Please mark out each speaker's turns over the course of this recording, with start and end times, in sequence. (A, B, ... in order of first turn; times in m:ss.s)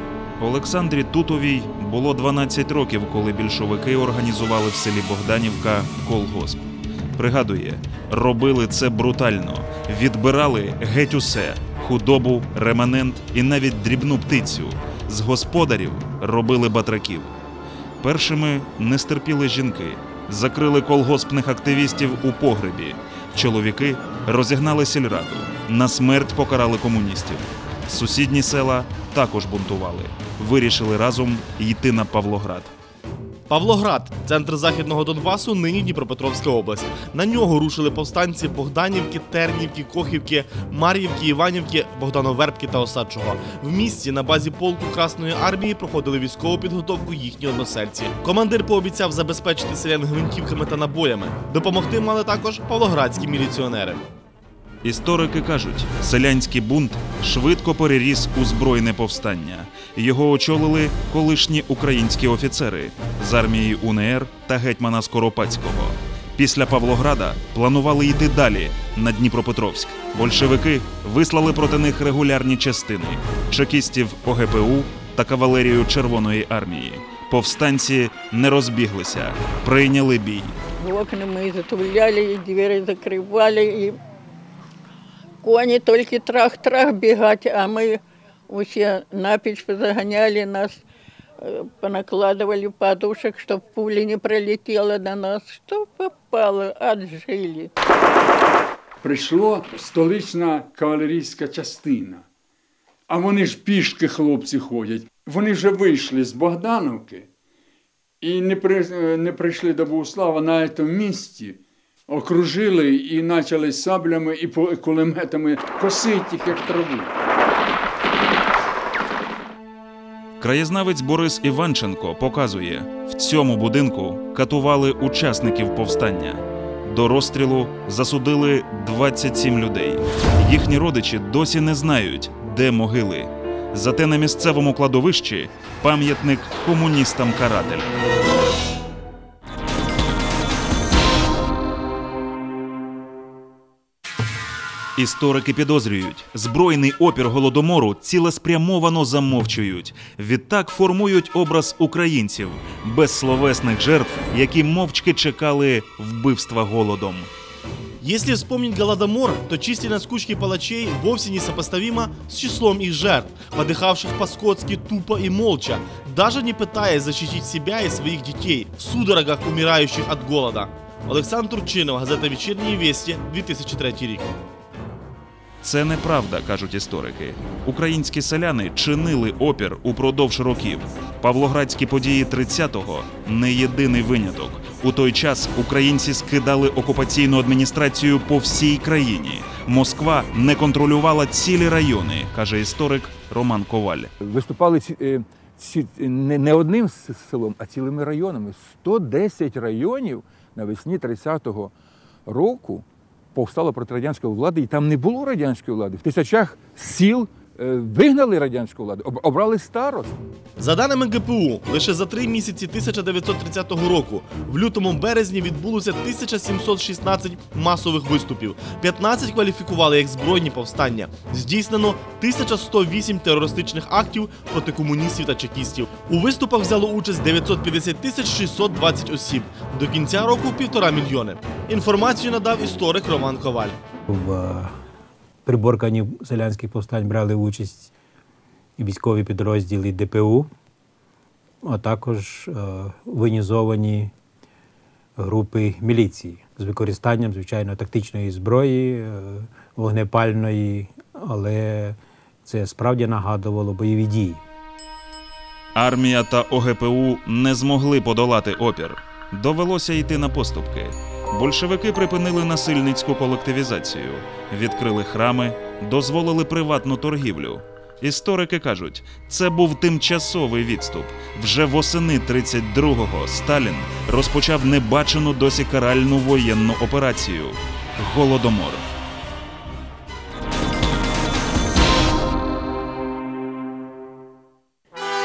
0:00.4-0:17.3 A
0:18.0-0:32.7 A
0:33.5-0:54.0 B
0:54.8-1:20.6 A
1:20.8-1:24.0 C
1:25.4-1:30.8 C
1:31.4-1:37.7 C
1:39.0-1:42.2 D
1:43.1-1:47.3 D
1:48.2-1:57.1 D
2:00.4-2:18.0 A
2:25.0-2:37.3 A
2:38.0-2:54.3 B
2:55.6-3:14.1 A
3:14.2-3:21.7 E
3:22.2-3:30.1 E
3:30.6-3:53.7 B
3:54.1-3:54.8 F
3:55.4-3:57.9 F
3:58.8-4:00.5 F
4:01.6-4:04.1 F
4:05.2-4:14.4 F
4:15.8-4:38.8 A